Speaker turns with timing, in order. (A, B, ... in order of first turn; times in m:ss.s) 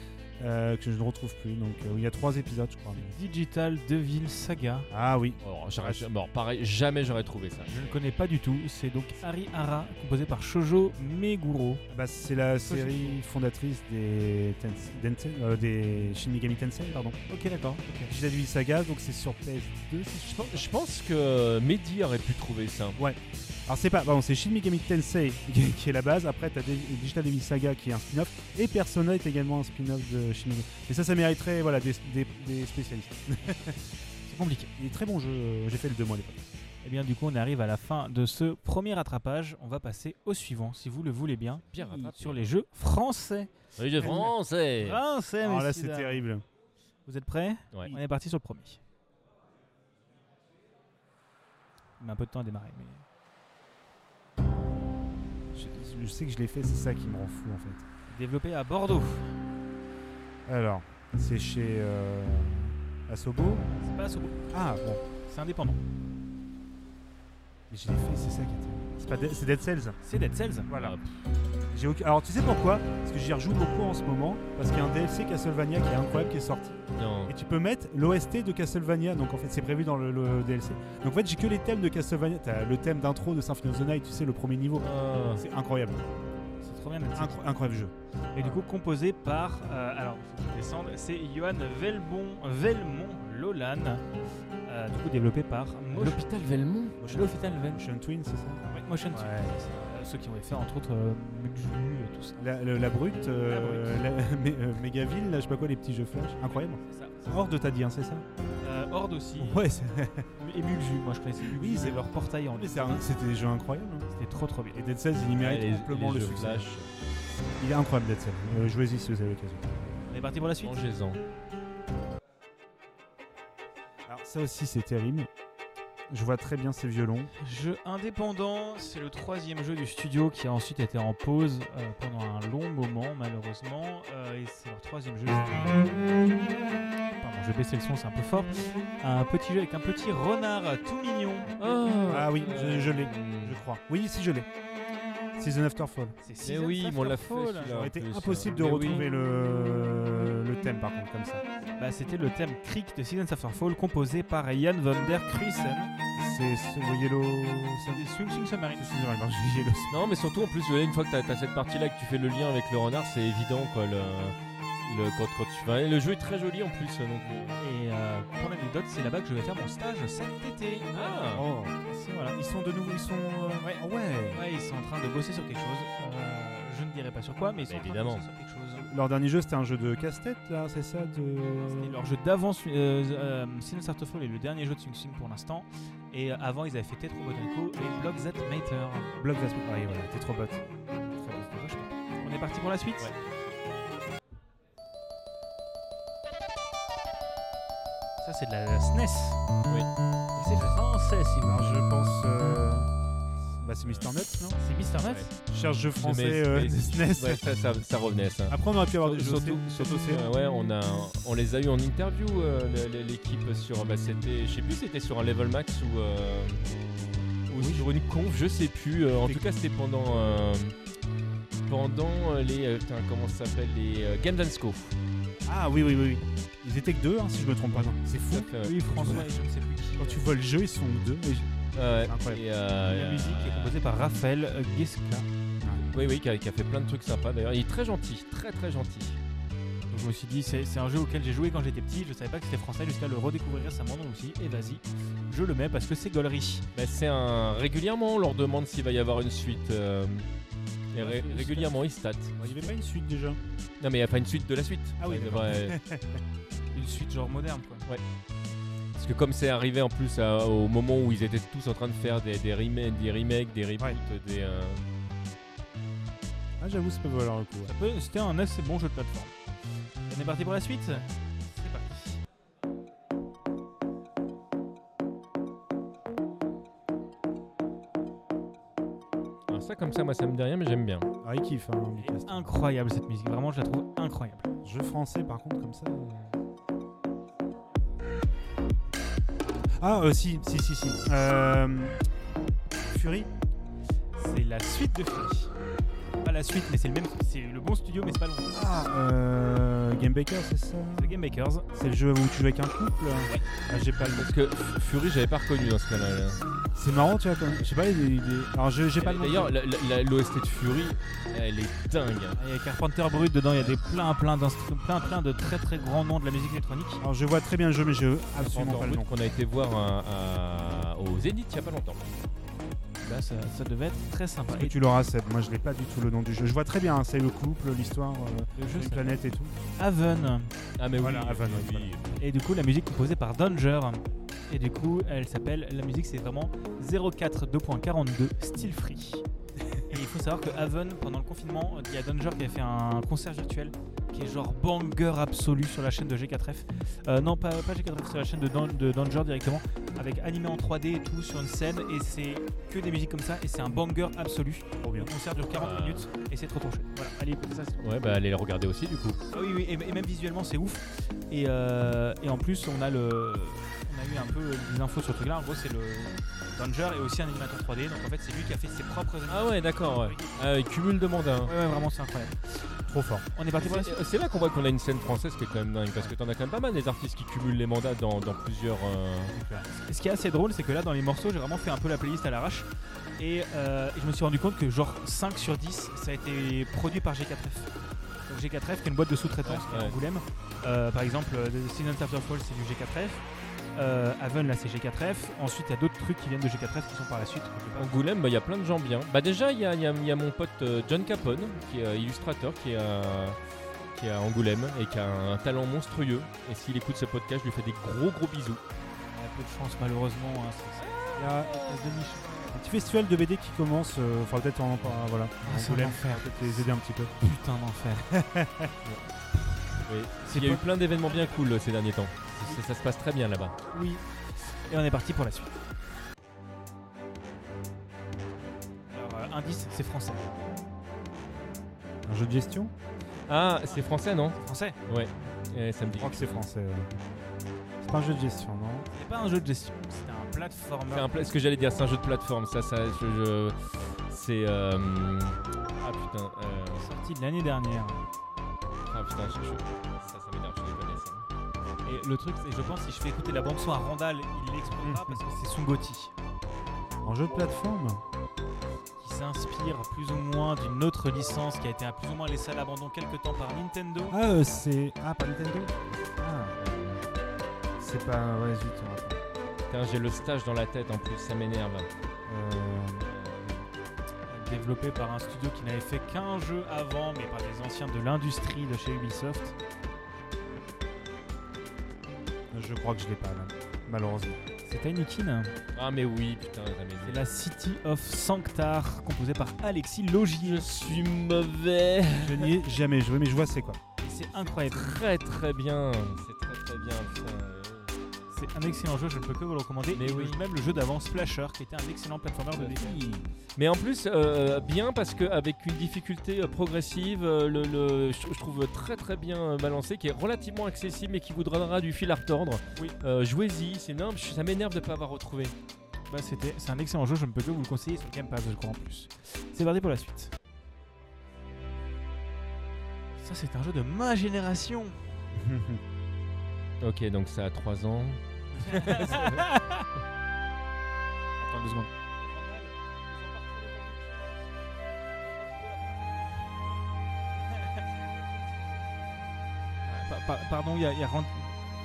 0:00.4-0:03.2 A
0:02.9-0:04.9 B
0:04.9-0:06.1 A
0:05.4-0:08.0 C
0:07.7-0:11.8 B
0:11.9-0:17.2 A
0:12.6-0:13.2 B
0:17.3-0:18.1 B
0:18.0-0:20.7 A
0:20.3-0:23.0 C
0:23.0-0:33.8 A
0:34.3-0:34.7 B
0:34.8-0:36.4 A
0:36.8-0:43.5 B
0:41.7-0:42.4 C
0:43.8-0:45.0 C
0:44.0-0:44.3 A
0:44.8-0:46.2 B
0:45.4-0:46.4 A
0:47.0-0:48.8 B
0:52.0-0:53.0 B
0:55.5-0:57.8 A
0:58.1-0:59.4 B
1:00.5-1:03.7 A
1:03.7-1:04.4 B
1:04.5-1:05.0 A
1:05.2-1:05.8 B
1:07.7-1:10.0 A
1:10.0-1:10.7 B
1:10.7-1:11.0 A
1:10.7-1:11.0 C
1:11.7-1:26.1 A
1:17.0-1:17.3 C
1:24.8-1:25.4 C
1:26.6-1:27.4 B
1:27.1-1:28.6 A
1:28.3-1:34.0 B
1:34.6-1:36.3 B
1:35.9-1:37.0 C
1:37.0-1:39.5 A
1:37.1-1:37.8 B
1:38.7-1:42.4 B
1:42.4-1:48.2 A
1:43.4-1:44.0 B
1:46.4-1:47.5 B
1:48.6-1:49.6 B
1:49.4-1:50.3 A
1:50.4-1:53.0 B
1:51.4-1:54.1 A
1:54.1-1:54.8 B
1:54.7-1:56.7 A
1:55.4-1:56.9 C
1:57.6-1:59.8 A
2:00.1-2:00.8 B
2:00.6-2:01.2 C
2:04.0-2:05.3 A
2:06.1-2:07.3 A
2:07.4-2:16.0 B
2:17.2-2:21.8 B
2:21.6-2:23.6 C
2:22.1-2:24.5 A
2:25.4-2:26.2 A
2:26.2-2:27.7 B
2:26.4-2:29.1 C
2:27.7-2:31.4 A
2:31.8-2:35.9 B
2:36.2-2:38.0 A
2:37.9-2:38.9 B
2:38.8-2:39.9 A
2:39.9-2:47.6 C
2:47.6-2:51.3 B
2:50.9-2:51.5 C
2:51.3-2:51.8 A
2:51.8-2:52.4 B
2:52.3-2:54.4 A
2:54.3-2:58.9 B
2:57.6-2:58.2 C
2:58.8-3:02.0 A
3:01.6-3:09.1 B
3:09.2-3:10.6 A
3:11.2-3:11.9 A
3:12.2-3:13.1 B
3:18.2-3:19.4 B
3:20.4-3:21.8 B
3:21.5-3:22.9 A
3:23.4-3:24.6 A
3:24.6-3:25.3 B
3:25.4-3:27.4 A
3:26.0-3:36.6 C
3:28.5-3:30.3 A
3:37.5-3:40.8 C
3:37.5-3:37.8 A
3:41.7-3:45.0 C
3:45.4-3:48.5 A
3:48.3-3:48.8 C
3:48.6-3:50.3 B
3:50.0-3:51.5 A
3:51.7-3:53.8 C
3:52.0-3:52.4 A
3:52.8-3:55.3 B
3:55.9-3:59.2 C
3:59.9-4:06.6 B
4:06.7-4:10.3 C
4:10.9-4:12.5 C
4:10.9-4:11.8 B
4:12.4-4:13.4 A
4:13.8-4:15.8 C
4:15.0-4:16.2 A
4:16.7-4:17.8 B
4:18.9-4:24.8 C
4:26.6-4:27.7 A
4:27.6-4:29.3 B
4:30.1-4:32.2 B
4:39.5-4:41.1 C
4:41.2-4:42.5 A
4:42.0-4:44.5 B
4:44.6-4:46.4 A
4:49.6-4:52.0 A
4:52.9-4:53.3 A
4:54.2-4:55.5 B
4:56.2-4:58.7 B
4:58.5-5:01.1 A
5:01.0-5:01.7 B
5:01.7-5:04.3 A
5:04.0-5:06.4 C
5:06.7-5:09.6 A
5:09.0-5:12.4 C
5:12.4-5:17.0 B
5:17.0-5:19.1 A
5:18.4-5:22.1 C
5:23.0-5:24.8 B
5:24.5-5:29.5 A
5:28.6-5:29.2 B
5:29.8-5:30.5 B
5:30.8-5:32.1 C
5:31.0-5:32.0 A
5:32.2-5:39.2 B
5:39.9-5:57.8 B
5:54.8-5:55.1 A
5:55.5-5:56.0 C
5:57.8-5:59.2 C
5:59.3-6:10.3 B
6:09.3-6:11.5 C
6:11.4-6:12.7 B
6:12.9-6:13.2 A
6:13.3-6:14.0 B
6:13.6-6:19.3 C
6:19.3-6:19.6 A
6:19.6-6:27.7 B
6:28.3-6:33.2 B
6:29.4-6:29.9 C
6:33.7-6:37.9 B
6:37.8-6:43.4 C
6:43.9-6:48.6 C
6:49.0-6:52.4 B
6:50.9-6:51.1 C
6:51.2-6:51.5 A
6:52.5-6:57.1 A
6:55.4-6:56.7 B
6:57.2-6:58.1 B
6:58.1-6:58.7 A
6:59.8-7:03.6 C
7:00.2-7:01.5 B
7:03.7-7:05.6 B
7:08.9-7:10.3 B
7:12.0-7:12.7 A
7:13.3-7:16.4 C
7:13.6-7:14.8 B
7:16.0-7:17.0 A
7:17.8-7:18.9 A
7:18.9-7:21.7 B
7:20.9-7:26.9 C
7:26.7-7:28.0 B
7:28.9-7:31.2 C
7:31.8-7:36.1 B
7:34.8-7:35.2 A
7:37.0-7:38.0 A
7:39.0-7:44.2 B
7:44.1-7:46.6 A
7:46.6-7:47.0 C
7:47.8-7:49.2 A
7:49.7-7:51.9 C
7:52.3-7:53.1 A
7:53.0-7:53.7 C
7:54.3-7:59.6 B
8:02.5-8:04.4 A
8:04.6-8:05.5 B
8:05.7-8:07.2 C
8:07.0-8:10.7 B
8:10.4-8:12.5 C
8:12.2-8:13.8 A
8:14.0-8:14.9 B
8:14.3-8:17.9 C
8:18.3-8:23.0 B
8:19.9-8:20.4 C
8:22.5-8:35.5 C
8:36.1-8:40.3 B
8:43.2-8:45.2 B
8:45.3-8:45.8 A
8:46.8-8:49.5 C
8:48.5-8:49.9 B
8:51.4-8:54.3 B
8:55.2-8:56.8 B
8:57.3-8:58.7 B
8:59.8-9:01.5 B